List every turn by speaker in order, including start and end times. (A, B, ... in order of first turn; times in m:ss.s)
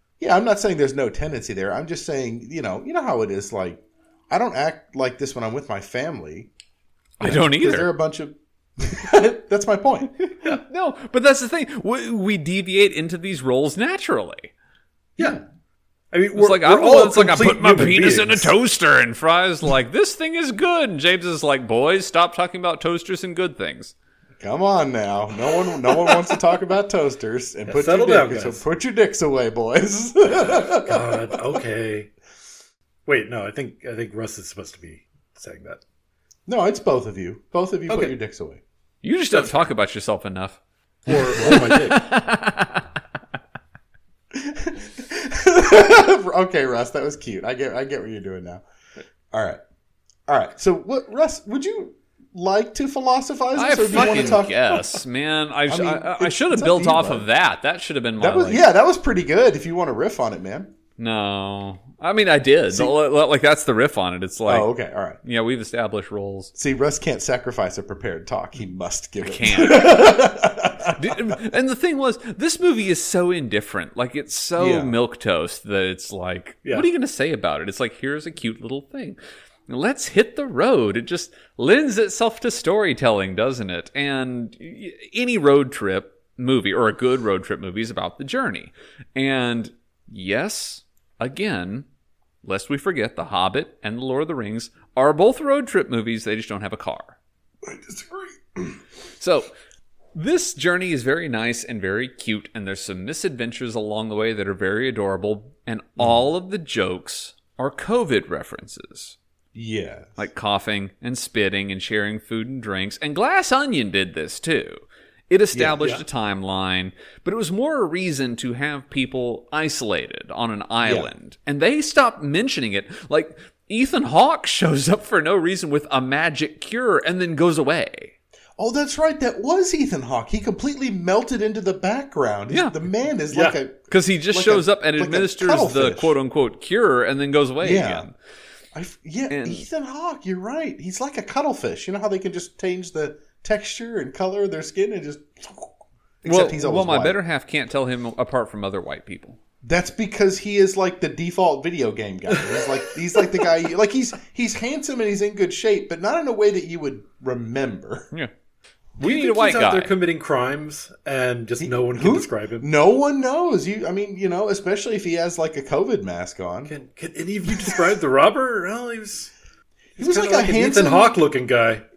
0:00.2-0:06.5 A
0:07.2-0:07.9 B
0:07.2-0:10.3 A
0:10.4-0:14.5 B
0:16.1-0:18.5 C
0:16.3-0:23.9 B
0:24.4-0:31.6 A
0:27.7-0:28.6 C
0:30.8-0:32.1 C
0:33.1-0:35.8 C
0:36.5-0:38.6 A
0:37.9-0:38.1 C
0:39.0-0:40.6 B
0:41.1-0:42.0 C
0:41.1-0:42.8 B
0:44.3-0:48.6 A
0:49.3-0:49.6 A
0:50.3-0:55.0 A
0:53.5-0:58.6 B
0:55.7-0:57.3 A
0:58.2-1:00.7 A
1:01.0-1:04.7 B
1:04.5-1:05.2 A
1:05.2-1:06.5 B
1:06.5-1:11.3 A
1:09.2-1:10.3 B
1:10.8-1:31.9 B
1:14.6-1:14.9 A
1:32.4-1:37.2 B
1:37.6-1:38.8 A
1:39.2-1:39.5 B
1:40.1-1:49.2 B
1:46.0-1:46.2 A
1:49.5-1:50.3 A
1:50.2-2:08.1 B
1:55.5-1:55.8 A
2:00.8-2:01.1 A
2:08.6-2:16.1 A
2:12.5-2:12.7 B
2:13.3-2:13.6 C
2:13.9-2:18.1 B
2:17.6-2:18.1 A
2:18.7-2:27.2 A
2:19.3-2:19.6 B
2:26.2-2:29.4 B
2:29.6-2:38.1 A
2:32.3-2:32.7 C
2:39.0-2:39.9 B
2:39.0-2:42.7 C
2:41.6-2:46.7 A
2:46.7-2:49.3 C
2:47.5-2:47.8 A
2:50.0-2:51.8 C
2:50.0-2:51.1 A